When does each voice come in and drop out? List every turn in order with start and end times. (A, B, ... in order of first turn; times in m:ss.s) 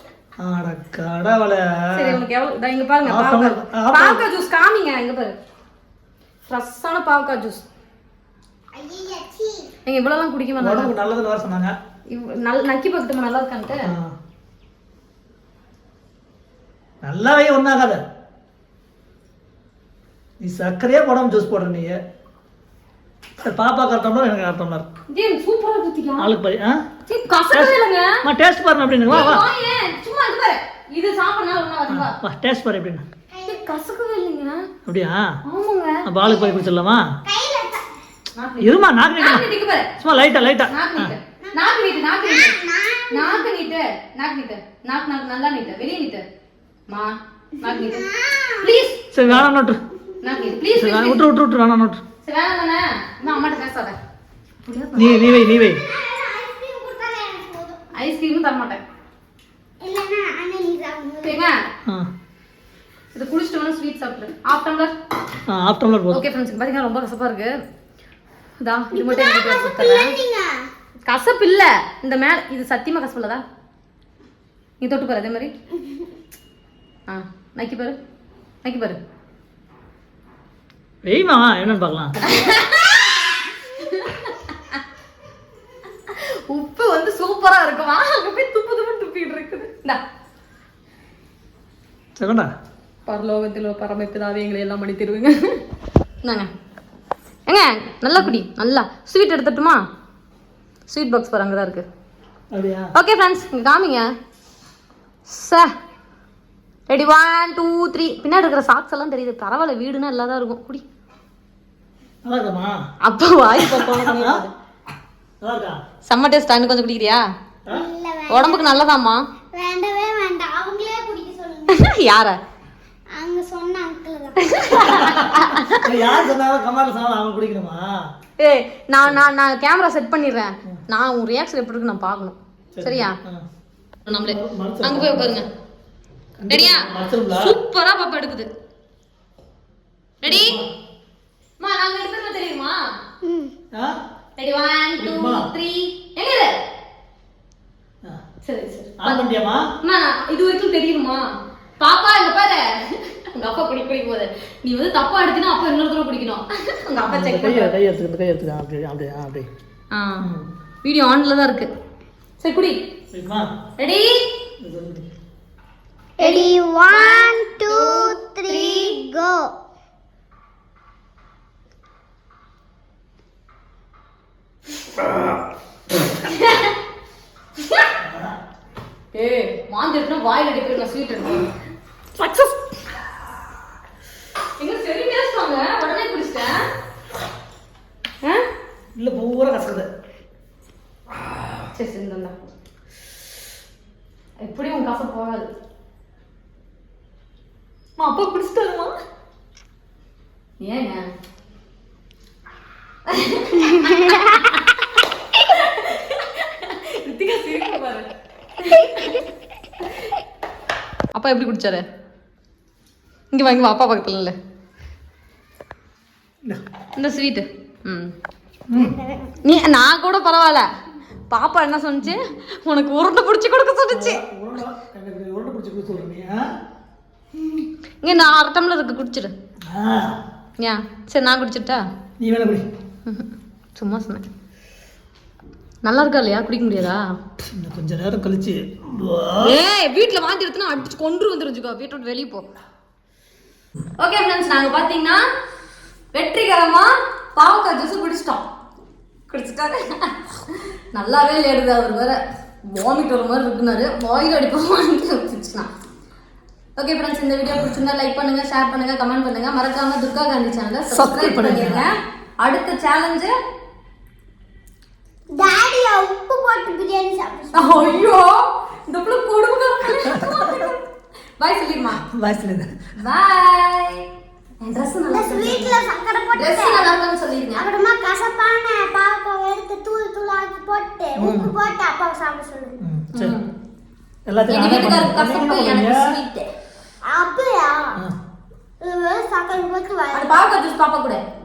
0:00.4-0:02.2 A
0:01.9-0:05.4 B
0:03.0-0:04.2 A
0:06.5-0:07.6 B
0:08.7-0:09.7 C
0:09.8-0:10.9 B
0:10.6-0:11.7 A
0:12.1-0:13.9 B
0:13.8-0:14.1 A
0:17.0-0:18.0 A
0:20.4-0:22.0 A
0:23.4-0:24.9 A
0:25.1-0:26.3 B
0:26.2-0:26.8 A
0:27.0-0:28.2 B
0:27.5-0:29.4 A
0:29.1-0:32.2 B
0:31.9-0:33.0 A
0:33.3-0:33.6 C
0:33.4-0:34.7 B
0:34.8-0:35.4 A
0:35.4-0:36.0 B
0:36.0-0:37.1 A
0:36.2-0:36.6 C
0:37.2-0:37.8 C
0:38.3-0:39.9 B
0:38.6-0:39.5 A
0:40.0-0:41.1 A
0:40.7-0:42.5 B
0:41.4-0:43.4 C
0:43.1-0:46.2 B
0:46.9-0:48.0 B
0:47.6-0:48.7 C
0:48.6-0:49.4 B
0:49.1-0:49.8 A
0:50.2-0:51.2 B
0:50.7-0:52.0 A
0:52.2-0:54.0 B
0:54.6-0:55.2 B
0:55.0-0:55.8 A
0:55.0-0:57.8 C
0:58.0-0:58.8 B
0:59.8-1:01.4 C
1:01.2-1:01.6 B
1:03.1-1:04.9 B
1:05.5-1:06.2 A
1:06.1-1:07.5 B
1:08.6-1:10.1 B
1:08.9-1:10.6 C
1:11.0-1:13.4 B
1:14.8-1:15.5 B
1:17.1-1:17.9 B
1:18.6-1:19.0 B
1:21.0-1:22.2 A
1:22.2-1:24.8 B
1:26.1-1:30.0 B
1:32.2-1:32.5 A
1:33.0-1:35.6 B
1:36.2-1:36.5 B
1:37.5-1:39.8 B
1:40.9-1:41.8 B
1:42.5-1:42.9 A
1:42.9-1:44.1 B
1:45.3-1:45.7 B
1:46.9-1:50.8 B
1:52.2-1:52.8 A
1:53.0-1:54.5 B
1:53.6-1:54.4 A
1:55.4-1:55.8 A
1:56.1-1:57.2 B
1:57.7-1:58.8 C
1:58.3-1:59.2 B
1:59.5-2:01.9 C
2:01.7-2:02.4 B
2:03.1-2:05.0 C
2:04.4-2:05.8 B
2:04.9-2:07.9 A
2:08.4-2:13.2 B
2:12.8-2:13.4 A
2:14.0-2:15.5 B
2:14.1-2:15.4 A
2:16.4-2:17.6 A
2:16.5-2:18.5 B
2:20.2-2:20.6 B
2:20.2-2:20.7 A
2:21.6-2:22.8 B
2:23.2-2:23.5 C
2:24.4-2:26.6 B
2:25.0-2:25.5 A
2:28.4-2:29.2 B
2:29.0-2:29.6 A
2:29.8-2:31.2 B
2:31.8-2:37.7 B
2:37.0-2:39.5 A
2:39.9-2:40.2 B
2:40.2-2:40.5 A
2:40.8-2:41.7 B
2:42.4-2:42.8 B
2:43.1-2:43.5 A
2:43.8-2:44.3 B
2:44.6-2:45.1 A
2:46.2-2:49.5 C
2:46.2-2:49.0 B
2:56.2-2:56.8 B
2:57.6-2:57.9 B
2:58.0-2:58.4 A
2:59.1-3:01.5 B
3:02.2-3:02.7 B
3:04.6-3:06.6 B
3:08.9-3:09.9 A
3:11.7-3:12.5 B
3:14.4-3:15.5 B
3:18.0-3:18.9 B
3:20.6-3:21.0 B
3:23.1-3:29.2 B
3:31.1-3:31.8 B
3:33.3-3:34.3 B
3:37.0-3:38.1 B
3:38.7-3:39.0 A
3:38.7-3:39.4 C
3:39.4-3:40.6 B
3:41.3-3:44.2 B
3:43.9-3:46.4 A
3:47.5-3:49.3 B
3:49.7-3:50.2 A
3:50.6-3:51.8 B
3:52.2-3:52.7 A
3:53.0-3:54.3 B
3:55.8-3:57.0 B
3:57.5-3:59.6 A
3:59.4-4:02.5 B
4:04.0-4:05.2 B
4:06.1-4:08.4 B
4:09.3-4:12.2 B
4:12.7-4:15.7 B
4:16.8-4:23.3 B
4:20.9-4:21.9 A
4:25.3-4:28.0 C
4:27.5-4:30.8 B
4:30.0-4:30.7 A
4:31.4-4:32.0 B
4:32.0-4:32.7 A
4:33.0-4:34.1 B
4:34.6-4:35.8 B
4:35.1-4:36.9 C
4:36.3-4:37.7 B
4:37.6-4:42.8 C
4:41.2-4:41.5 A
4:42.8-4:43.4 A
4:43.1-4:43.5 B
4:44.3-4:46.1 A
4:44.5-4:46.5 B
4:47.1-4:48.0 C
4:48.8-4:50.3 C
4:50.1-4:51.2 B